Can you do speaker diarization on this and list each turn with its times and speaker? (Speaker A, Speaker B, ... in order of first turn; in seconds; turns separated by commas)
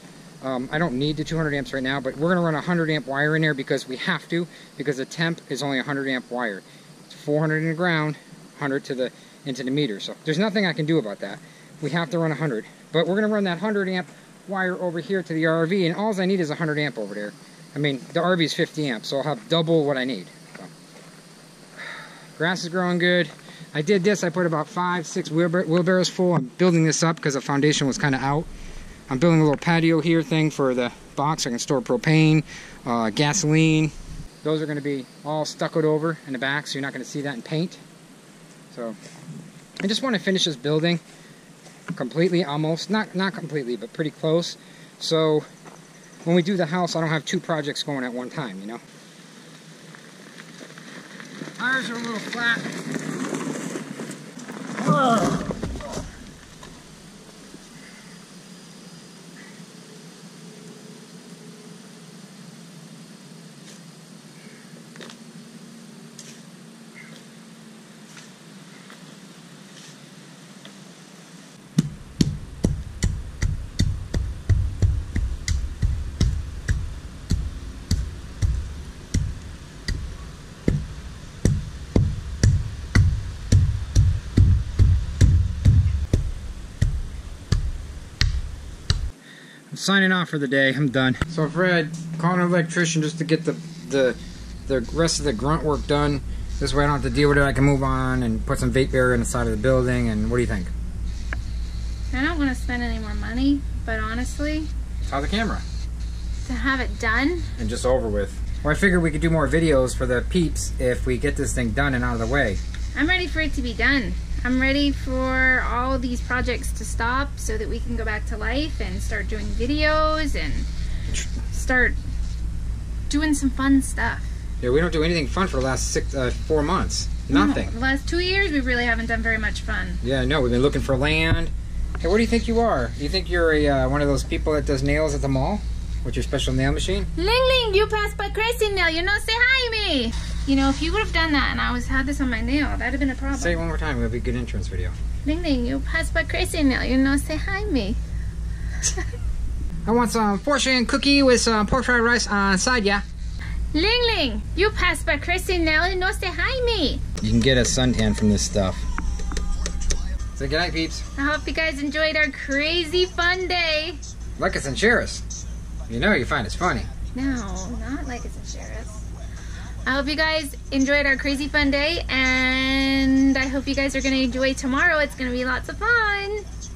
Speaker A: 0.4-20.7, Speaker A: 22.4-28.5, Speaker A: 29.1-33.9, Speaker A: 34.4-37.8, Speaker A: 38.7-39.0, Speaker A: 39.8-41.0, Speaker A: 41.9-45.5, Speaker A: 46.2-48.8, Speaker A: 51.6-52.7, Speaker A: 54.8-55.5, Speaker A: 89.7-100.7, Speaker B: 102.1-104.7, Speaker A: 105.0-105.6, Speaker B: 106.4-107.5, Speaker A: 107.6-112.6, Speaker B: 112.9-120.7, Speaker B: 121.5-122.0, Speaker B: 123.1-124.3, Speaker A: 124.6-127.7, Speaker B: 127.3-130.0, Speaker A: 130.0-137.1, Speaker B: 137.2-143.6, Speaker A: 143.3-144.9, Speaker B: 145.2-148.0, Speaker A: 149.8-153.0, Speaker B: 153.7-157.0, Speaker A: 157.2-158.8, Speaker A: 160.3-161.0, Speaker B: 161.2-164.0, Speaker A: 164.4-165.2, Speaker A: 165.9-166.9, Speaker B: 167.1-169.0, Speaker B: 169.8-176.4